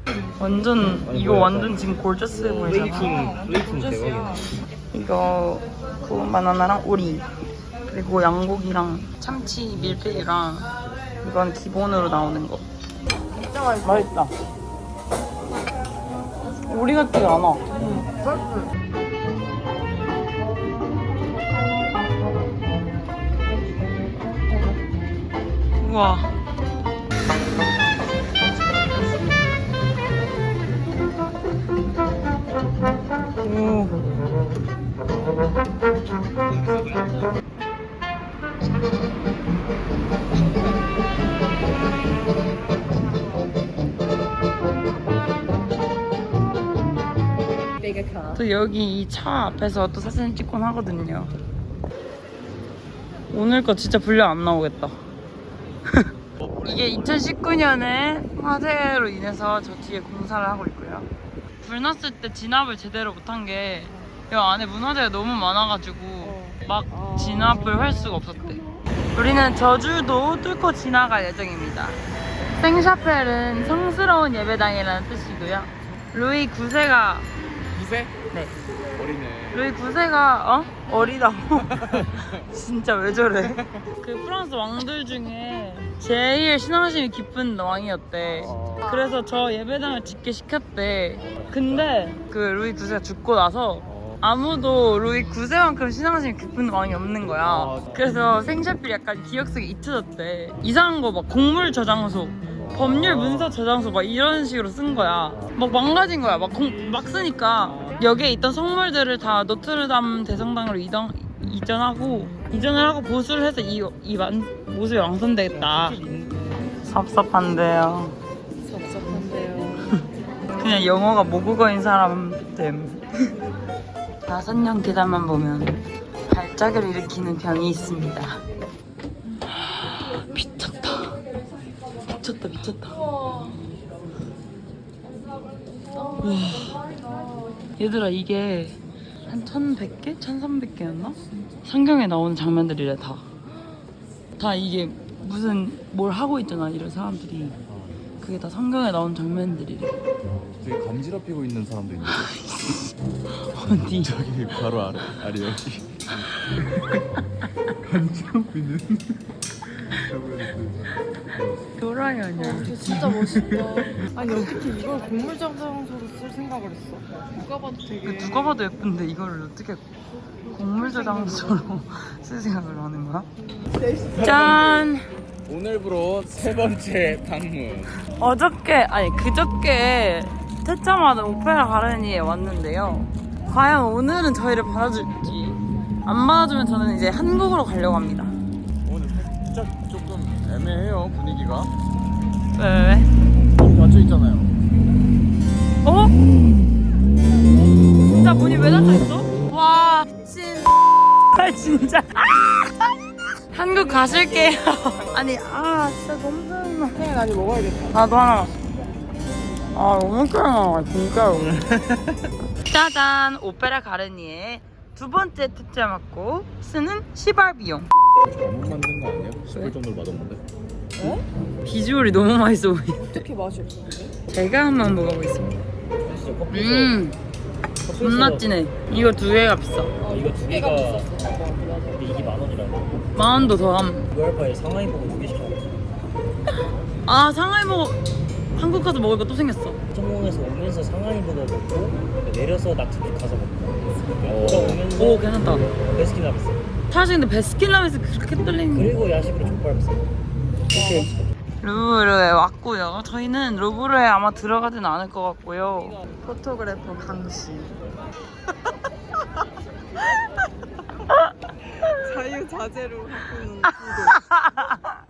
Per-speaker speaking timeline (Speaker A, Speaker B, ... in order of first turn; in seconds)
Speaker A: 0.4-3.2, 4.9-7.3, 7.9-10.7, 11.2-12.7, 13.8-14.3, 16.7-17.6, 25.8-26.3, 33.4-34.0, 48.3-51.3, 53.3-55.0, 56.6-61.1, 61.6-68.6, 69.2-72.0, 72.5-77.3, 79.5-116.0, 116.8-118.2, 120.6-123.1, 124.2-128.4, 129.5-131.2, 132.1-133.5, 136.2-136.9, 137.8-143.2, 144.4-147.6, 148.2-150.0, 152.2-154.2, 156.2-156.6, 161.8-162.8, 168.0-169.8, 170.5-173.3, 174.2-175.1, 178.2-188.3, 192.5-193.1, 195.8-196.1, 197.9-202.9, 203.5-207.0, 207.9-208.5, 209.7-211.8, 212.6-217.9, 221.6-223.1, 224.3-225.7, 226.5-227.2, 227.9-229.9, 233.1-234.1, 237.1-238.0, 238.5-239.8, 244.7-245.7, 246.9-248.9, 250.7-256.0, 264.2-264.9
Speaker B: 1.0-4.5, 93.9-94.2, 97.4-98.1, 102.6-103.6, 107.8-108.0, 115.5-116.6, 226.0-227.0, 227.8-228.5, 230.0-231.1, 231.9-233.0, 234.1-235.9, 239.9-246.6, 248.7-250.1, 250.7-251.2
Speaker C: 13.4-14.1, 17.8-18.6, 47.8-48.4, 66.2-68.5, 118.6-119.9, 162.4-168.6, 170.8-171.6, 173.6-174.6, 204.0-204.6, 206.9-208.0, 221.0-221.2, 223.0-224.1, 230.0-232.1, 256.1-257.7, 261.8-264.2
Speaker D: 56.4-57.3, 77.7-78.2, 78.9-79.7, 81.8-82.2, 150.5-152.3, 153.9-156.2, 157.8-159.1, 160.1-160.8, 174.2-174.8, 175.4-177.9, 188.8-191.7, 193.6-194.5, 218.2-220.4, 244.2-244.8